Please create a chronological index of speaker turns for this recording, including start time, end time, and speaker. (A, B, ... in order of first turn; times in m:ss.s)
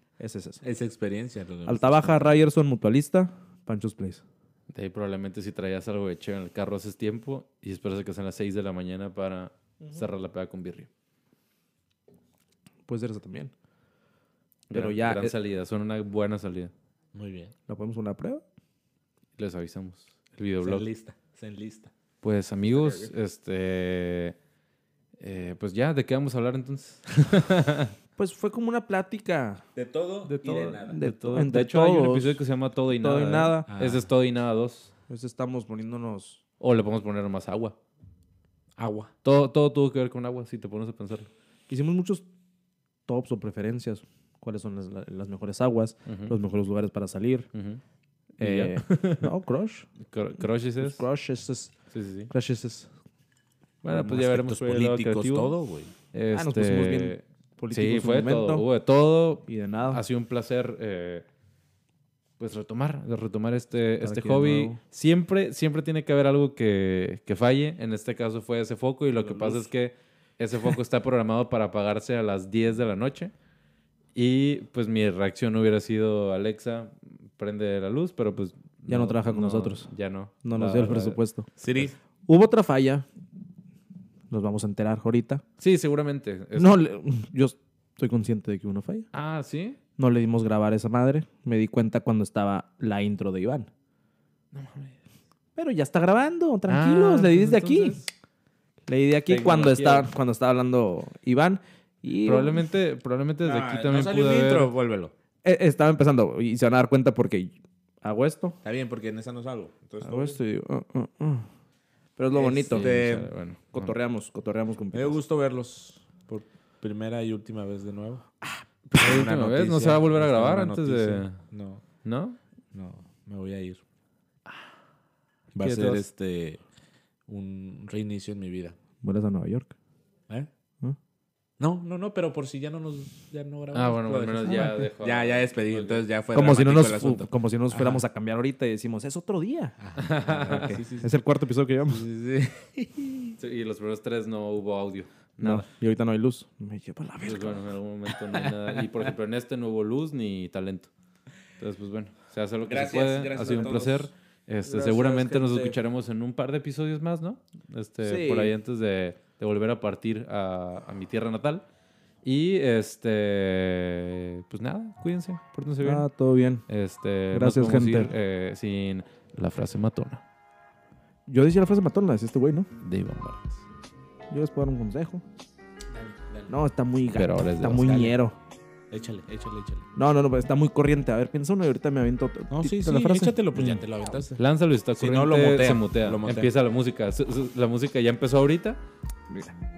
0:00.2-0:00.6 A
0:00.6-0:02.3 B
0:01.7-0:04.2 A
0:04.7-0:10.9 C
0:12.9-0:13.5 A
0:14.7-0:16.7 C
0:14.7-0:15.4 A
0:17.1-0:17.5 B
0:17.7-0:18.4 A
0:19.4-0:20.9 C
0:20.6-0:21.9 B
0:22.2-0:24.4 C
0:22.7-0:23.1 B
0:25.2-0:27.9 C
0:28.2-0:29.6 A
0:29.8-0:31.0 B
0:30.3-0:34.9 C
0:30.9-0:32.4 A
0:32.9-0:33.7 A
0:33.7-0:34.1 B
0:35.1-0:36.4 A
0:36.6-0:37.8 C
0:38.8-0:39.1 B
0:39.2-0:41.3 C
0:41.7-0:42.2 A
0:43.1-0:47.5 A
0:46.1-0:46.3 C
0:47.5-0:47.8 C
0:48.4-0:49.3 C
0:48.4-0:49.9 A
0:50.1-0:51.0 C
0:50.8-0:51.7 A
0:51.9-0:52.3 C
0:52.3-0:52.9 A
0:53.8-0:55.5 C
0:53.9-0:55.9 B
0:56.1-1:01.3 C
0:56.3-0:58.6 A
0:59.5-1:00.0 A
1:02.4-1:13.3 C
1:04.0-1:04.8 A
1:14.2-1:21.2 C
1:18.9-1:19.9 A
1:20.4-1:21.5 A
1:21.6-1:21.9 B
1:22.3-1:23.1 A
1:24.3-1:25.4 A
1:25.6-1:26.8 C
1:26.6-1:29.1 A
1:29.1-1:29.8 C
1:30.0-1:33.7 A
1:34.5-1:35.0 C
1:35.6-1:38.0 A
1:36.7-1:38.1 C
1:38.9-1:42.7 A
1:39.3-1:40.1 C
1:42.2-1:44.7 C
1:43.4-1:45.1 B
1:45.4-1:48.6 A
1:48.6-1:50.4 B
1:50.0-1:51.5 A
1:52.2-1:53.0 A
1:52.3-1:53.3 B
1:52.6-1:54.0 C
1:53.7-1:55.2 A
1:54.9-1:58.3 B
1:58.8-2:01.8 B
1:58.9-2:01.4 C
2:02.0-2:02.4 C
2:02.7-2:03.8 B
2:05.5-2:06.6 B
2:05.6-2:06.0 C
2:07.3-2:08.8 B
2:09.0-2:09.8 A
2:11.6-2:18.0 B
2:13.7-2:16.0 C
2:14.5-2:14.8 A
2:16.3-2:19.8 A
2:19.8-2:21.1 B
2:20.0-2:20.8 C
2:20.5-2:22.1 A
2:21.9-2:23.4 B
2:23.4-2:25.7 C
2:25.4-2:27.6 A
2:27.2-2:30.9 C
2:31.6-2:41.6 C
2:32.6-2:34.1 B
2:34.7-2:35.8 A
2:38.0-2:38.5 A
2:42.2-2:46.1 C
2:45.8-2:46.6 A
2:46.7-2:50.2 C
2:47.3-2:48.1 A
2:51.3-2:52.7 A
2:52.8-2:53.6 C
2:54.3-2:55.2 A
2:55.9-2:56.5 B
2:56.5-2:58.4 A
2:57.2-2:58.1 C
2:57.8-2:58.2 B
2:58.9-2:59.9 B
3:00.0-3:03.4 A
3:02.5-3:04.4 B
3:03.6-3:03.8 C
3:04.4-3:08.8 C
3:05.0-3:06.5 B